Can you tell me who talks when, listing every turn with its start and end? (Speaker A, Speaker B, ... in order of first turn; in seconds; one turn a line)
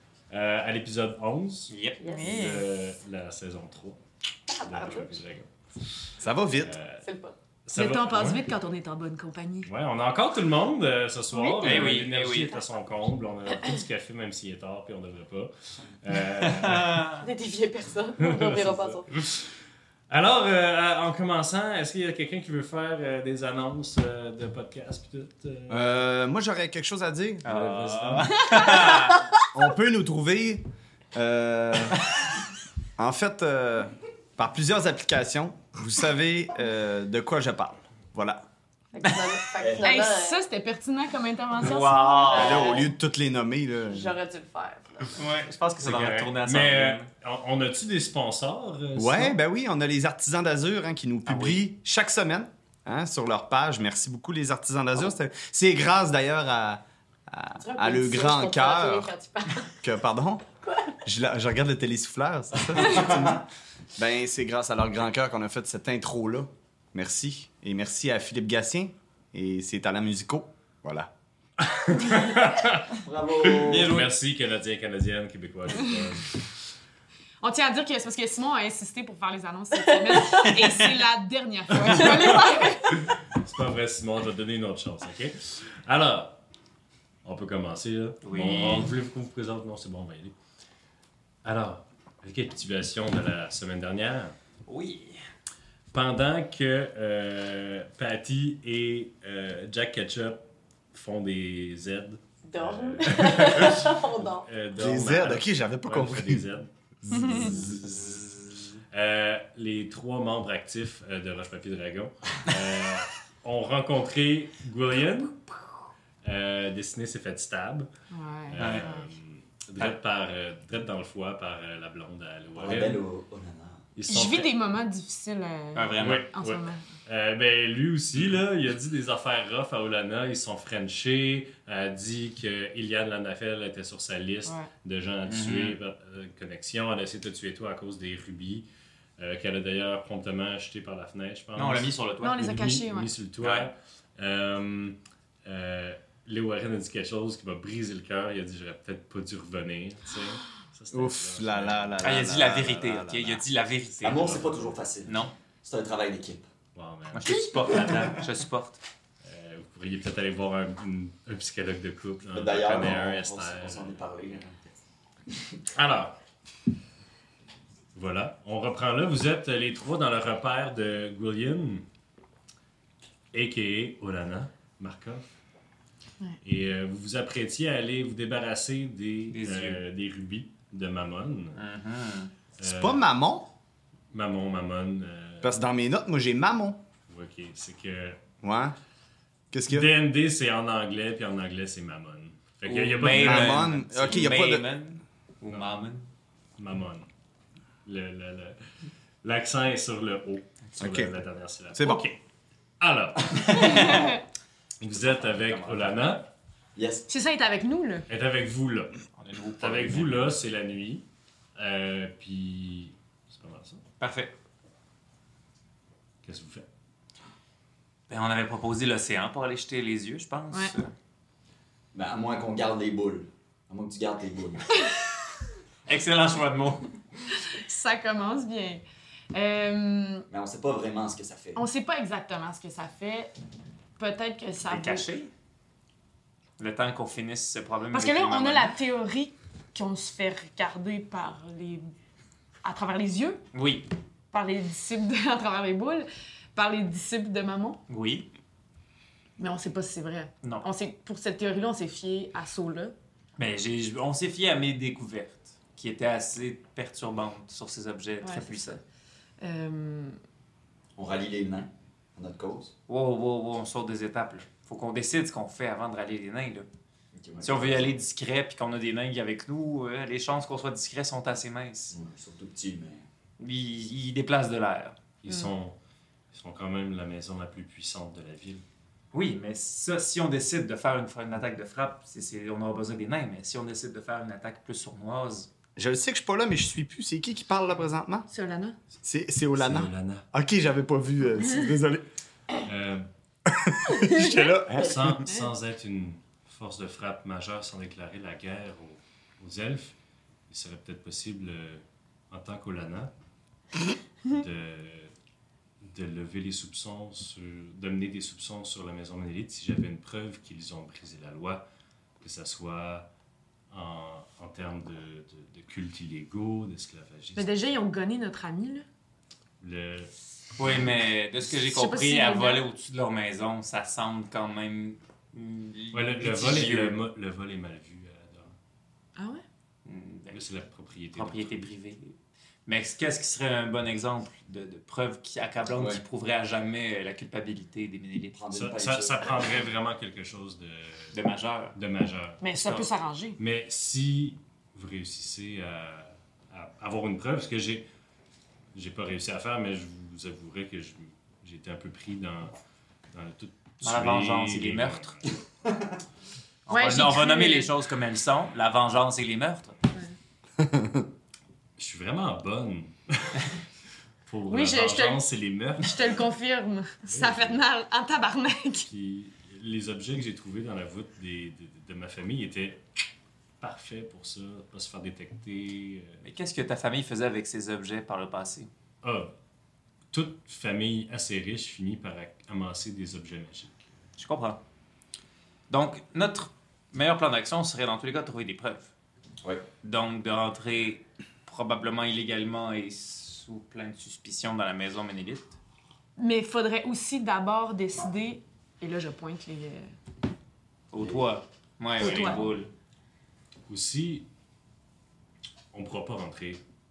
Speaker A: 0.3-4.0
Speaker B: 1.7-2.0
Speaker C: 2.0-2.4
Speaker D: 2.0-2.7
Speaker C: 4.5-5.2
Speaker A: 4.5-5.5
Speaker A: 6.1-7.0
Speaker E: 6.2-6.8
Speaker C: 7.0-7.3
Speaker A: 7.7-8.5
Speaker D: 7.7-9.7
Speaker A: 9.7-17.1
Speaker D: 11.3-12.0
Speaker B: 11.6-12.5
Speaker B: 16.4-17.2
Speaker C: 17.2-19.1
Speaker A: 18.2-19.6
Speaker A: 20.1-25.9
Speaker E: 25.7-27.5
Speaker B: 27.4-29.3
Speaker A: 27.4-28.6
Speaker E: 29.5-32.0
Speaker E: 33.0-38.4
Speaker C: 38.9-40.4
Speaker B: 39.0-39.4
Speaker F: 39.6-39.9
Speaker D: 39.8-42.4
Speaker B: 41.6-42.9
Speaker C: 42.1-42.9
Speaker E: 42.3-44.1
Speaker C: 43.8-45.3
Speaker B: 45.1-47.1
Speaker A: 45.8-49.4
Speaker E: 49.0-59.1
Speaker B: 51.2-51.6
Speaker C: 57.6-59.8
Speaker E: 59.8-60.5
Speaker C: 60.6-61.0
Speaker E: 61.0-71.1
Speaker F: 62.8-63.4
Speaker A: 71.6-76.5
Speaker F: 72.9-73.9
Speaker B: 73.6-74.1
Speaker D: 77.4-83.1
Speaker A: 81.7-86.4
Speaker A: 87.2-90.3
Speaker B: 88.2-88.9
Speaker A: 91.4-94.3
Speaker B: 94.7-95.2
Speaker A: 95.9-100.4
Speaker A: 100.9-108.2
Speaker C: 102.5-104.5
Speaker E: 104.7-106.5
Speaker E: 107.0-108.1
Speaker A: 108.9-115.7
Speaker A: 116.2-117.9
Speaker D: 118.1-119.1
Speaker A: 118.5-123.0
Speaker B: 118.6-118.9
Speaker F: 122.5-123.8
Speaker A: 124.0-124.5
Speaker D: 124.1-126.8
Speaker B: 125.7-126.3
Speaker A: 126.0-138.7
Speaker B: 135.2-135.8
Speaker A: 139.2-152.2
Speaker B: 141.5-142.4
Speaker D: 142.2-143.2
Speaker B: 143.4-143.7
Speaker E: 150.9-153.4
Speaker B: 152.0-154.4
Speaker F: 154.0-156.5
Speaker A: 154.1-154.6
Speaker B: 155.0-155.3
Speaker A: 156.7-158.2
Speaker B: 157.1-158.8
Speaker A: 159.2-164.0
Speaker F: 162.3-164.7
Speaker A: 165.7-166.2
Speaker A: 167.9-171.8
Speaker A: 173.3-175.2
Speaker A: 176.4-181.6
Speaker B: 179.3-179.8
Speaker B: 181.5-182.3
Speaker A: 182.6-183.0
Speaker E: 182.6-183.5
Speaker A: 184.1-185.6
Speaker E: 185.4-186.8
Speaker A: 187.1-188.2
Speaker E: 188.4-188.8
Speaker E: 189.5-189.9
Speaker A: 189.7-194.3
Speaker B: 192.6-196.1
Speaker E: 193.1-194.7
Speaker A: 196.6-197.1
Speaker A: 197.8-198.6
Speaker A: 199.2-202.2
Speaker E: 200.8-201.1
Speaker E: 201.7-202.0
Speaker A: 202.8-204.1
Speaker D: 203.5-204.2
Speaker F: 203.6-203.9
Speaker A: 204.8-206.3
Speaker F: 204.9-206.2
Speaker F: 206.8-207.1
Speaker D: 207.1-208.1
Speaker A: 208.1-209.0
Speaker B: 209.2-210.3
Speaker A: 209.6-211.0
Speaker A: 211.6-213.8
Speaker B: 214.0-214.3
Speaker A: 216.2-216.7
Speaker B: 218.1-220.9
Speaker F: 221.9-224.7
Speaker B: 225.8-227.0
Speaker D: 227.3-230.3
Speaker F: 230.3-231.6
Speaker D: 231.5-233.3
Speaker D: 234.0-235.1
Speaker B: 234.7-235.3
Speaker B: 236.6-238.7
Speaker D: 237.9-241.9
Speaker D: 242.6-243.5
Speaker B: 243.5-243.9
Speaker D: 244.3-247.8
Speaker B: 247.9-248.3
Speaker D: 249.4-252.9
Speaker B: 250.4-250.7
Speaker B: 253.4-258.8
Speaker D: 258.2-258.8
Speaker D: 259.4-260.2
Speaker F: 260.9-262.7
Speaker B: 262.9-266.7
Speaker F: 267.1-268.0
Speaker B: 267.4-272.0
Speaker F: 271.9-273.1
Speaker B: 273.4-275.0
Speaker A: 275.2-275.8
Speaker A: 276.3-278.6
Speaker B: 279.1-285.5
Speaker E: 285.8-288.3
Speaker D: 288.3-288.8
Speaker E: 289.0-292.1
Speaker A: 289.5-290.3
Speaker A: 292.6-293.1
Speaker E: 293.5-295.3
Speaker A: 294.6-299.9
Speaker A: 300.5-303.1
Speaker A: 304.2-305.1
Speaker A: 305.8-311.6
Speaker A: 312.2-313.1
Speaker A: 313.7-317.5
Speaker D: 317.4-318.9
Speaker A: 319.6-320.9
Speaker B: 320.6-327.0
Speaker D: 321.6-322.7
Speaker A: 325.9-328.5
Speaker D: 329.1-329.4
Speaker B: 329.8-330.4
Speaker A: 330.3-331.6
Speaker B: 331.1-338.4
Speaker F: 335.7-336.0
Speaker F: 338.3-339.7
Speaker A: 338.5-341.1
Speaker B: 341.1-341.8
Speaker A: 341.8-342.4
Speaker D: 342.4-343.4
Speaker B: 342.5-342.9
Speaker A: 343.4-347.9
Speaker A: 348.7-352.5
Speaker A: 353.1-355.3
Speaker B: 353.8-355.1
Speaker B: 356.7-359.8
Speaker D: 356.7-357.7
Speaker E: 360.6-361.0
Speaker A: 361.8-363.6
Speaker A: 364.2-366.2
Speaker D: 364.5-365.2
Speaker D: 365.8-368.9
Speaker A: 367.1-367.6
Speaker A: 368.9-372.8
Speaker A: 373.6-376.2
Speaker B: 376.2-378.7
Speaker A: 379.0-379.3
Speaker A: 380.1-383.8
Speaker B: 384.2-384.6
Speaker B: 385.7-388.9
Speaker B: 389.8-395.6
Speaker D: 396.2-399.9
Speaker B: 400.9-402.7
Speaker F: 400.9-401.2
Speaker D: 402.0-402.4
Speaker F: 402.0-402.6
Speaker A: 403.7-404.3
Speaker A: 405.7-406.6